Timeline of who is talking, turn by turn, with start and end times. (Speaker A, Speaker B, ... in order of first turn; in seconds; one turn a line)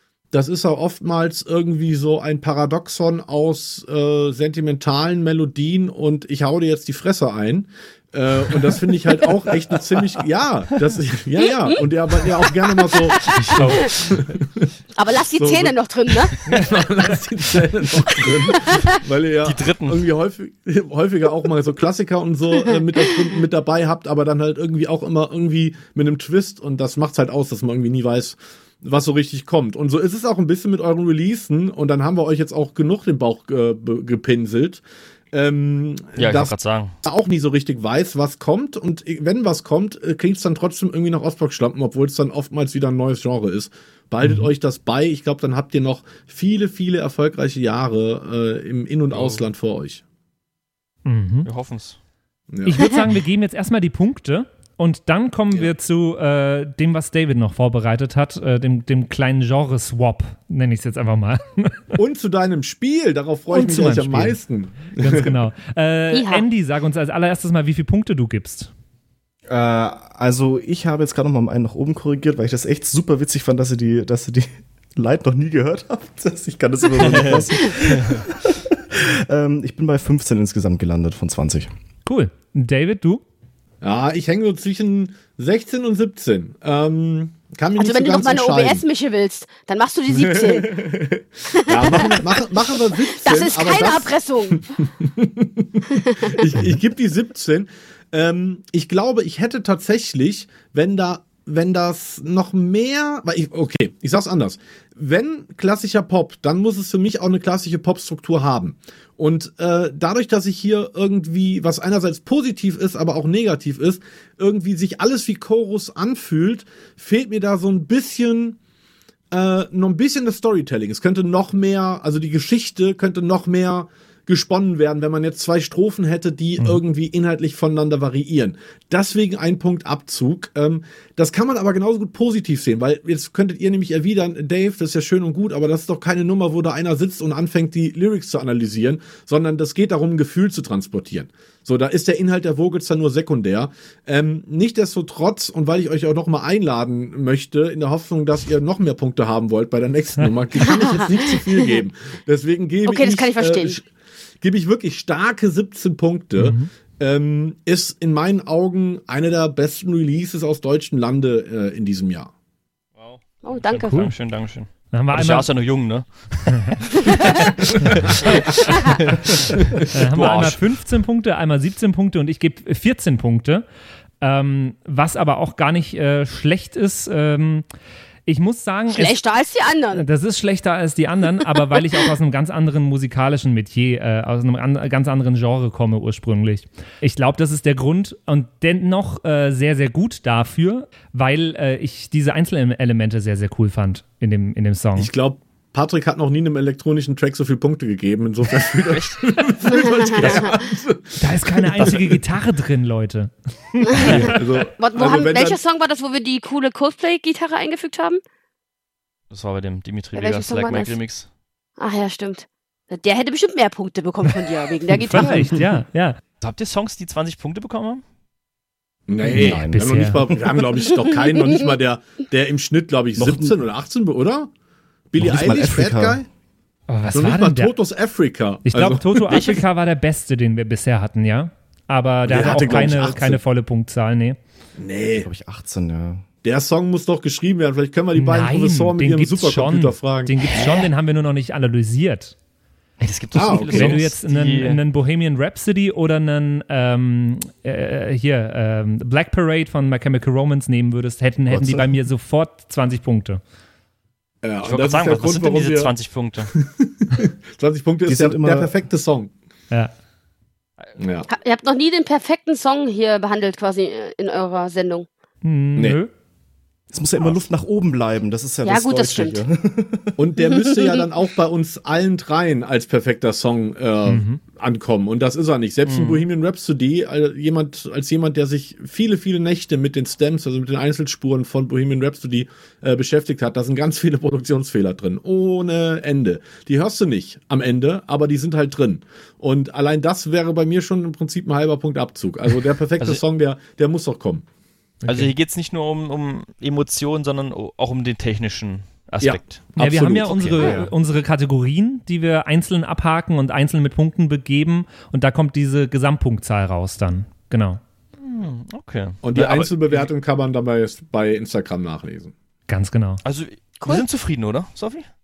Speaker A: 0.3-14.7
Speaker B: 12.5-13.8
Speaker C: 13.3-14.2
Speaker B: 15.0-16.4
Speaker A: 15.3-15.7
Speaker A: 16.5-50.0
Speaker B: 18.5-19.0
Speaker C: 19.4-20.1
Speaker B: 22.7-23.2
Speaker C: 36.2-36.9
Speaker D: 44.2-44.5
Speaker C: 49.1-49.4
Speaker D: 51.0-51.5
Speaker C: 51.4-52.0
Speaker A: 52.5-53.0
Speaker D: 52.6-61.8
Speaker A: 61.9-65.3
Speaker D: 63.5-64.4
Speaker D: 65.0-68.7
Speaker B: 66.1-66.4
Speaker E: 69.5-81.7
Speaker C: 77.0-78.0
Speaker D: 82.0-83.2
Speaker A: 83.8-88.8
Speaker B: 87.8-90.8
Speaker A: 90.1-118.6
Speaker B: 91.5-94.7
Speaker B: 95.9-96.4
Speaker A: 119.3-153.9
Speaker B: 150.6-151.8
Speaker B: 152.8-153.8
Speaker A: 154.4-162.3
Speaker D: 156.4-156.7
Speaker C: 163.0-170.6
Speaker B: 163.4-164.0
Speaker D: 163.8-164.1
Speaker D: 164.9-165.5
Speaker D: 169.9-173.6
Speaker D: 174.2-177.7
Speaker D: 178.2-179.2
Speaker B: 178.9-180.0
Speaker D: 179.9-195.1
Speaker A: 194.9-202.2
Speaker C: 198.8-199.2
Speaker B: 199.7-200.5
Speaker C: 200.2-200.4
Speaker D: 201.2-204.3
Speaker B: 203.9-204.1
Speaker C: 204.0-204.3
Speaker A: 204.1-205.6
Speaker B: 204.7-208.2
Speaker C: 209.3-211.3
Speaker B: 210.2-211.0
Speaker B: 211.8-215.6
Speaker D: 214.9-216.2
Speaker C: 216.4-218.0
Speaker A: 219.1-224.5
Speaker D: 219.2-220.2
Speaker E: 219.3-220.4
Speaker E: 223.2-223.5
Speaker A: 225.1-226.3
Speaker E: 225.2-226.2
Speaker D: 226.9-227.7
Speaker A: 227.1-229.4
Speaker D: 228.6-234.4
Speaker C: 229.3-229.6
Speaker A: 232.2-233.4
Speaker A: 234.8-235.3
Speaker E: 235.2-236.2
Speaker A: 236.4-240.3
Speaker D: 238.1-242.3
Speaker C: 243.0-244.8
Speaker A: 243.3-244.0
Speaker D: 243.7-253.4
Speaker E: 251.5-251.9
Speaker A: 254.4-255.9
Speaker C: 254.6-256.5
Speaker A: 256.6-259.3
Speaker E: 258.1-258.7
Speaker A: 261.0-261.3
Speaker B: 261.3-265.1
Speaker D: 265.4-266.1
Speaker E: 266.9-270.2
Speaker B: 268.6-269.4
Speaker A: 270.1-294.4
Speaker B: 270.5-271.0
Speaker D: 274.1-274.4
Speaker C: 275.9-276.2
Speaker D: 295.0-295.3
Speaker C: 295.1-300.8
Speaker A: 299.2-300.7
Speaker D: 299.8-307.8
Speaker E: 300.6-300.9
Speaker C: 308.2-310.1
Speaker A: 309.2-312.3
Speaker D: 312.7-313.2
Speaker C: 313.2-315.1